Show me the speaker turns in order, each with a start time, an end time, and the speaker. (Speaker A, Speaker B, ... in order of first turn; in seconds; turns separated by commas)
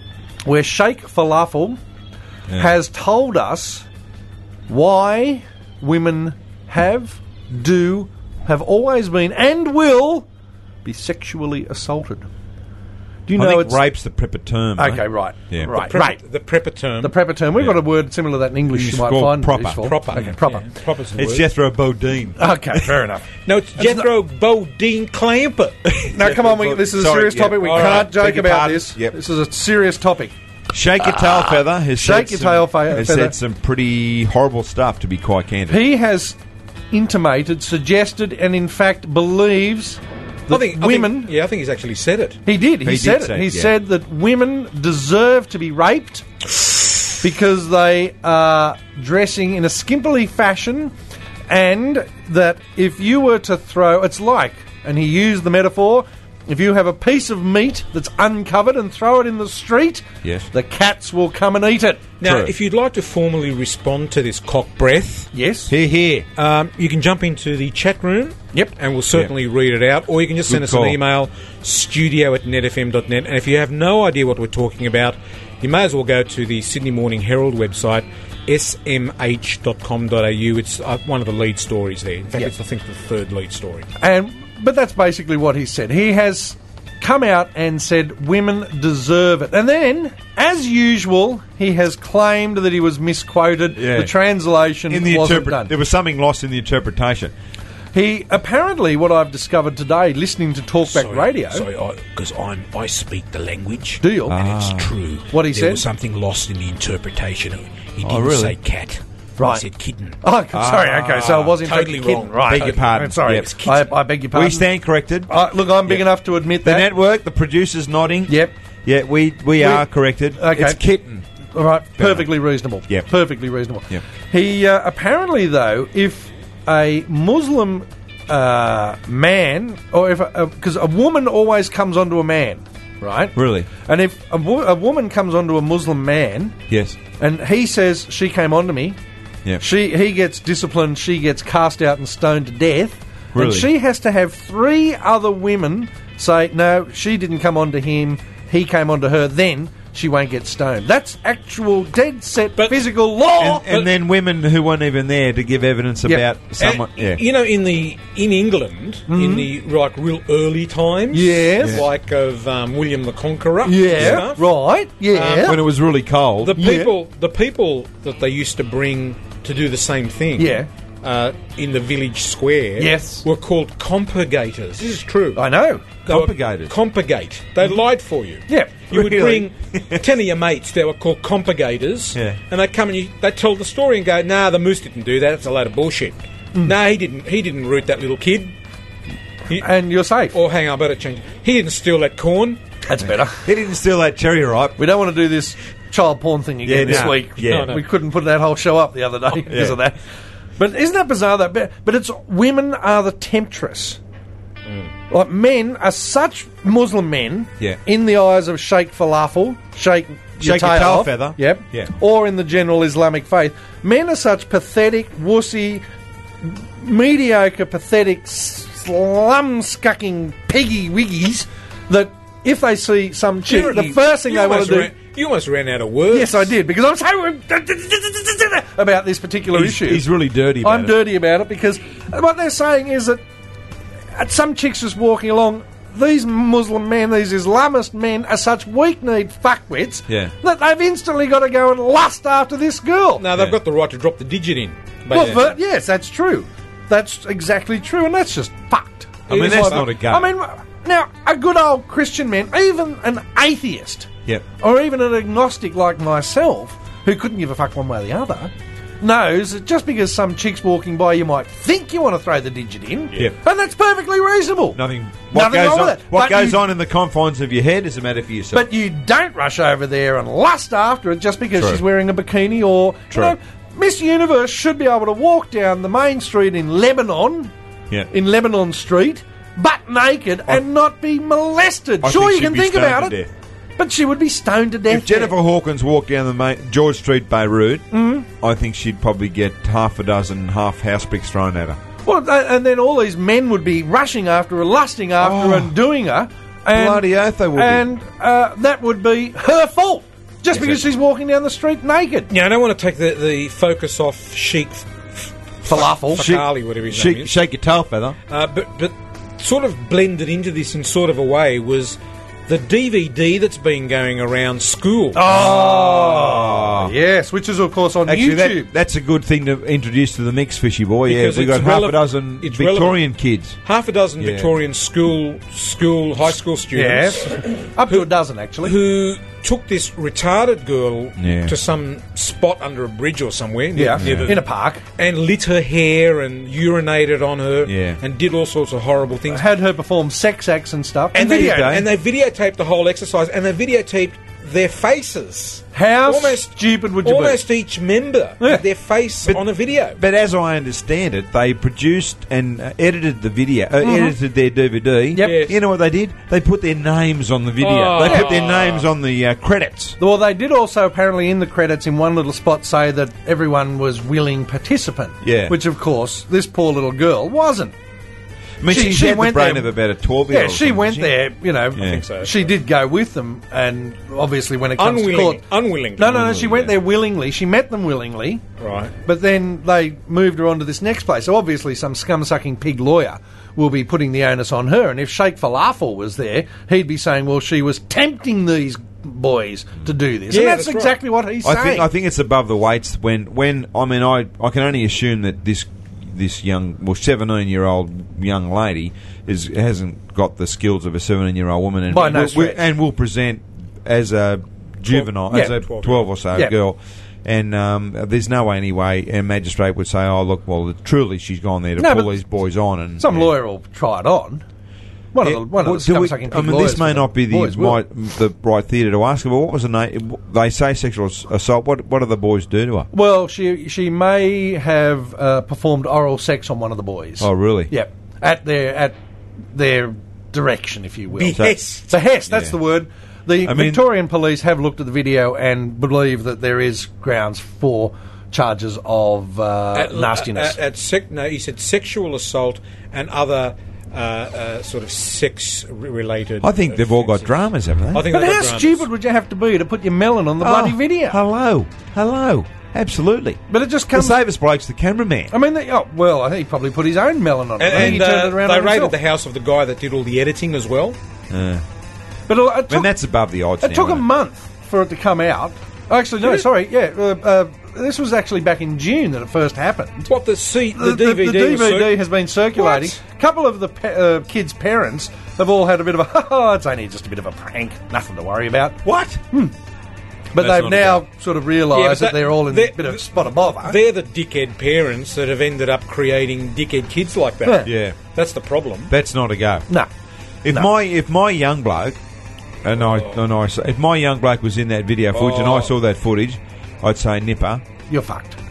Speaker A: 0.5-1.8, Speaker A: 2.5-3.9, Speaker A: 4.7-10.3, Speaker A: 10.8-12.3, Speaker A: 13.3-13.8, Speaker B: 13.3-15.7, Speaker A: 14.8-16.2, Speaker C: 15.7-17.1, Speaker A: 17.0-20.7, Speaker B: 18.7-19.9, Speaker C: 19.8-21.4, Speaker B: 21.1-22.9, Speaker A: 22.4-24.1, Speaker C: 23.4-25.8, Speaker B: 25.8-29.1, Speaker A: 26.1-30.3, Speaker C: 27.6-28.1, Speaker B: 30.7-35.8, Speaker A: 31.9-33.3, Speaker A: 35.7-36.4, Speaker A: 36.9-41.3, Speaker C: 40.5-42.4, Speaker A: 42.5-46.2, Speaker B: 42.8-43.7, Speaker A: 47.2-50.9, Speaker A: 51.5-62.0, Speaker C: 62.2-65.3, Speaker B: 62.2-62.5, Speaker A: 65.3-65.7, Speaker B: 65.7-66.2, Speaker C: 66.4-83.9, Speaker B: 70.5-71.0, Speaker A: 84.0-95.7, Speaker B: 93.8-94.1, Speaker B: 94.9-97.3, Speaker A: 97.9-101.7, Speaker C: 100.8-110.2, Speaker A: 104.0-104.4, Speaker B: 104.3-104.9, Speaker A: 105.3-105.8, Speaker B: 108.0-108.6, Speaker A: 109.4-109.6, Speaker A: 110.2-114.7, Speaker B: 110.5-111.5, Speaker C: 111.0-113.9, Speaker B: 112.5-113.5, Speaker B: 114.3-115.3, Speaker A: 115.3-116.9, Speaker B: 115.8-116.1, Speaker B: 116.6-121.2, Speaker A: 118.3-118.5, Speaker A: 119.6-120.8, Speaker A: 121.5-136.6, Speaker B: 122.0-122.3, Speaker B: 133.3-133.7, Speaker B: 136.7-137.0, Speaker A: 137.2-139.0, Speaker A: 139.6-153.7, Speaker B: 143.3-143.7, Speaker C: 152.6-152.8, Speaker B: 153.4-157.2, Speaker C: 153.6-153.9, Speaker C: 156.6-164.5, Speaker A: 159.1-159.5, Speaker A: 161.1-161.8, Speaker B: 161.6-161.9, Speaker A: 163.6-165.6, Speaker B: 164.0-164.2, Speaker C: 165.1-165.6, Speaker B: 165.4-166.6, Speaker C: 166.4-175.4, Speaker A: 166.6-166.9, Speaker A: 170.3-170.7, Speaker A: 172.8-173.2, Speaker A: 175.3-175.8, Speaker B: 176.1-176.7, Speaker C: 176.1-188.5, Speaker A: 178.5-178.8, Speaker B: 178.9-180.0, Speaker B: 182.1-182.4, Speaker A: 189.6-190.3, Speaker C: 190.3-192.6, Speaker A: 192.9-193.4, Speaker B: 193.0-194.8, Speaker A: 194.8-200.0, Speaker B: 196.6-197.8, Speaker C: 196.8-197.8, Speaker B: 199.5-199.8, Speaker A: 200.6-204.0, Speaker A: 205.1-215.8, Speaker B: 210.4-211.9, Speaker A: 216.4-224.9, Speaker C: 223.5-226.5, Speaker A: 226.1-230.1, Speaker B: 229.5-231.0, Speaker A: 230.6-233.2, Speaker A: 234.1-243.2, Speaker B: 240.1-240.3, Speaker C: 243.2-245.5, Speaker A: 245.1-264.8, Speaker B: 245.1-245.4, Speaker C: 249.3-249.9, Speaker B: 249.3-250.3, Speaker B: 264.7-268.6, Speaker A: 265.3-266.6, Speaker A: 268.5-277.5, Speaker B: 271.5-271.8, Speaker A: 278.1-283.2, Speaker B: 282.0-283.3, Speaker A: 283.8-285.3, Speaker B: 284.9-291.8, Speaker A: 287.9-288.3, Speaker A: 292.0-302.3, Speaker B: 295.2-295.7, Speaker B: 296.7-297.9, Speaker B: 300.5-300.8, Speaker C: 302.3-307.3, Speaker A: 305.6-306.2, Speaker B: 306.1-308.1, Speaker C: 308.3-315.4, Speaker A: 315.1-318.7, Speaker B: 315.3-316.9, Speaker B: 318.1-323.6, Speaker C: 321.1-323.0, Speaker C: 323.6-328.1, Speaker B: 324.2-324.5, Speaker A: 326.7-328.7, Speaker C: 328.6-334.4, Speaker B: 331.2-331.5, Speaker A: 333.7-334.8, Speaker B: 334.0-334.4, Speaker C: 334.9-339.4, Speaker B: 337.6-338.0, Speaker A: 339.3-341.7, Speaker C: 341.1-350.0, Speaker B: 341.2-341.9, Speaker A: 345.7-347.4, Speaker B: 349.2-360.0, Speaker A: 353.8-354.1, Speaker A: 355.1-355.4, Speaker C: 355.2-355.6, Speaker C: 357.6-358.9, Speaker A: 358.0-358.3, Speaker A: 360.0-367.7, Speaker B: 365.2-365.6, Speaker B: 368.6-371.2, Speaker A: 368.6-369.7, Speaker A: 370.3-375.4, Speaker B: 371.7-372.0, Speaker C: 371.8-372.3, Speaker C: 374.8-376.4, Speaker A: 376.0-378.4, Speaker B: 376.1-376.8, Speaker C: 378.6-378.9, Speaker A: 379.0-391.9, Speaker C: 390.3-391.0, Speaker B: 391.4-413.3, Speaker A: 401.9-402.6, Speaker C: 404.9-406.1, Speaker A: 405.3-405.6, Speaker A: 411.8-412.2, Speaker A: 413.0-414.4, Speaker A: 415.1-417.8, Speaker B: 415.2-422.9, Speaker A: 422.9-429.0, Speaker B: 427.2-427.7, Speaker A: 429.5-440.6, Speaker C: 431.1-431.9, Speaker B: 432.3-432.6, Speaker B: 433.4-433.8, Speaker C: 439.7-447.4, Speaker B: 446.4-448.1, Speaker C: 447.9-448.9, Speaker A: 448.0-451.2, Speaker B: 450.4-455.3, Speaker A: 453.5-454.1, Speaker A: 455.3-458.9, Speaker C: 457.6-461.0, Speaker B: 457.7-458.0, Speaker B: 461.3-461.6, Speaker A: 462.3-462.9, Speaker B: 462.7-464.1, Speaker A: 463.6-470.1, Speaker C: 470.1-472.0, Speaker A: 470.7-478.8, Speaker C: 472.5-473.0, Speaker B: 478.8-479.2, Speaker A: 480.3-483.8, Speaker B: 480.4-481.0, Speaker C: 481.7-488.9, Speaker A: 487.4-487.7, Speaker B: 487.6-488.0, Speaker B: 488.9-489.7, Speaker B: 490.4-492.0, Speaker B: 492.6-497.6, Speaker C: 495.1-495.7, Speaker A: 497.9-498.4